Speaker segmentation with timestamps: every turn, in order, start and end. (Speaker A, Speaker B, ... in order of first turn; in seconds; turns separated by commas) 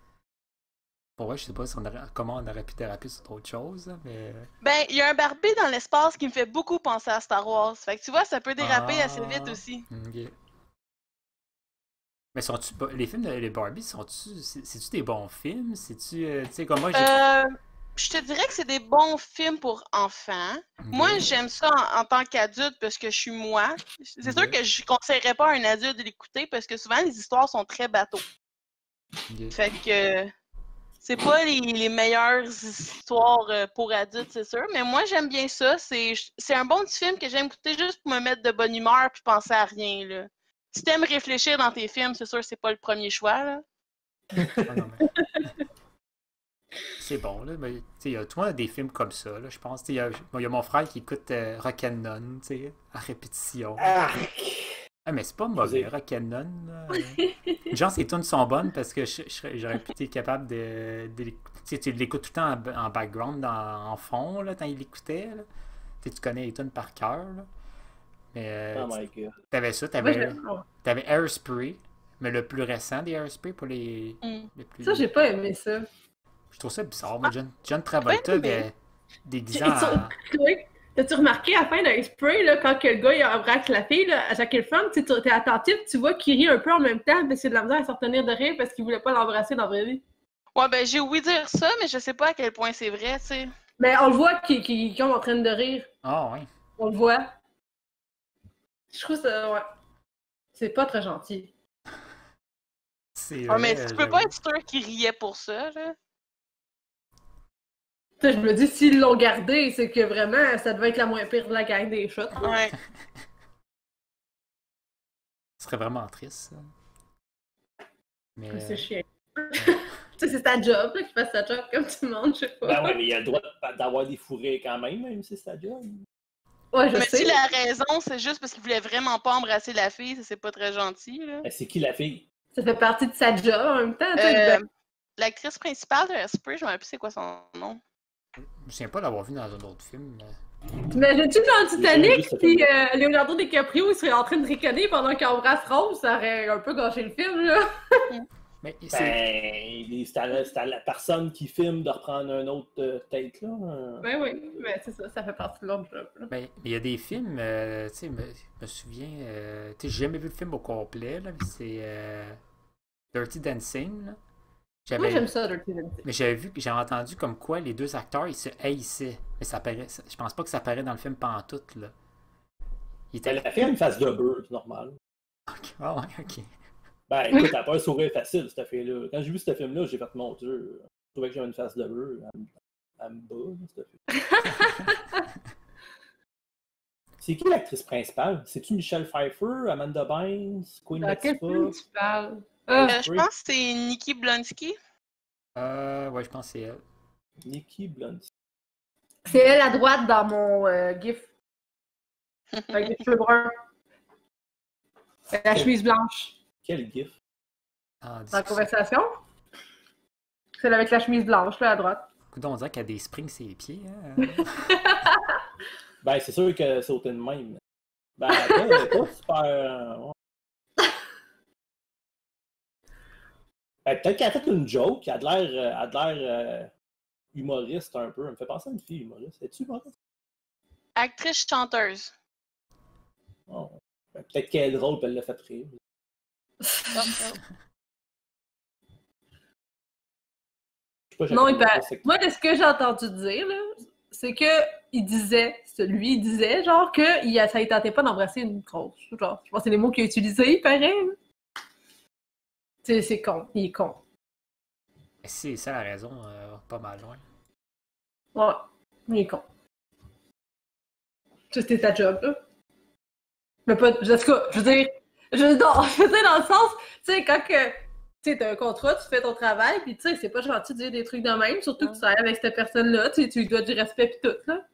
Speaker A: 1.2-4.5, Speaker B: 4.6-9.8, Speaker A: 8.6-10.3, Speaker A: 12.3-17.1, Speaker B: 16.9-28.2, Speaker A: 20.8-21.4, Speaker A: 24.2-24.6, Speaker A: 29.3-29.6, Speaker B: 29.5-30.3, Speaker B: 31.0-43.6, Speaker C: 44.3-44.8, Speaker A: 44.7-45.1, Speaker A: 47.0-53.9, Speaker C: 53.8-54.8, Speaker A: 55.1-65.5, Speaker C: 55.6-55.9, Speaker A: 66.0-67.5, Speaker A: 68.3-75.1, Speaker C: 68.7-69.4, Speaker D: 70.0-70.7, Speaker B: 74.2-74.5, Speaker D: 74.8-75.9, Speaker A: 76.5-78.7, Speaker B: 78.1-78.7, Speaker A: 79.2-80.1, Speaker D: 79.5-90.0, Speaker B: 90.6-93.5, Speaker D: 93.8-95.9, Speaker A: 96.0-96.5, Speaker D: 96.8-97.3, Speaker D: 98.9-99.7, Speaker D: 100.5-101.5, Speaker A: 103.2-104.3, Speaker B: 103.5-106.0, Speaker D: 108.2-112.6, Speaker B: 112.4-112.7, Speaker A: 115.6-116.6, Speaker A: 118.4-118.9, Speaker D: 118.5-123.0, Speaker C: 122.7-126.1, Speaker D: 126.7-127.4, Speaker B: 126.9-131.5, Speaker C: 131.4-132.2, Speaker D: 132.6-134.6, Speaker B: 134.2-134.6, Speaker B: 135.2-137.8, Speaker A: 138.4-140.4, Speaker D: 140.9-148.1, Speaker C: 141.8-142.7, Speaker A: 148.6-149.2, Speaker C: 148.9-154.1, Speaker D: 154.0-156.3, Speaker A: 156.3-162.4, Speaker A: 163.1-164.2, Speaker A: 164.9-165.3, Speaker D: 165.0-166.1, Speaker A: 166.0-171.9, Speaker A: 173.1-173.5, Speaker C: 173.2-175.0, Speaker A: 175.5-176.5, Speaker C: 177.1-184.0, Speaker D: 184.2-185.1, Speaker A: 184.5-184.9, Speaker C: 187.2-191.8, Speaker D: 191.0-193.0, Speaker C: 192.7-193.3, Speaker B: 192.7-194.8, Speaker A: 195.6-196.8, Speaker C: 197.4-198.3, Speaker D: 199.3-201.3, Speaker D: 202.7-203.5, Speaker D: 205.3-206.4, Speaker C: 206.6-207.2, Speaker A: 208.0-208.7, Speaker D: 208.3-209.2, Speaker D: 210.6-212.1, Speaker A: 212.3-214.8, Speaker D: 214.7-215.2, Speaker C: 216.0-217.6, Speaker C: 218.2-220.1, Speaker D: 218.3-218.9, Speaker C: 223.8-226.7, Speaker C: 227.3-229.9, Speaker B: 231.0-232.1, Speaker C: 233.5-235.8, Speaker D: 236.6-237.2, Speaker B: 236.9-237.4, Speaker C: 241.1-242.1, Speaker D: 241.3-251.2, Speaker D: 252.8-254.0, Speaker A: 255.2-257.2, Speaker D: 258.4-259.4, Speaker D: 261.5-262.4, Speaker D: 263.7-274.6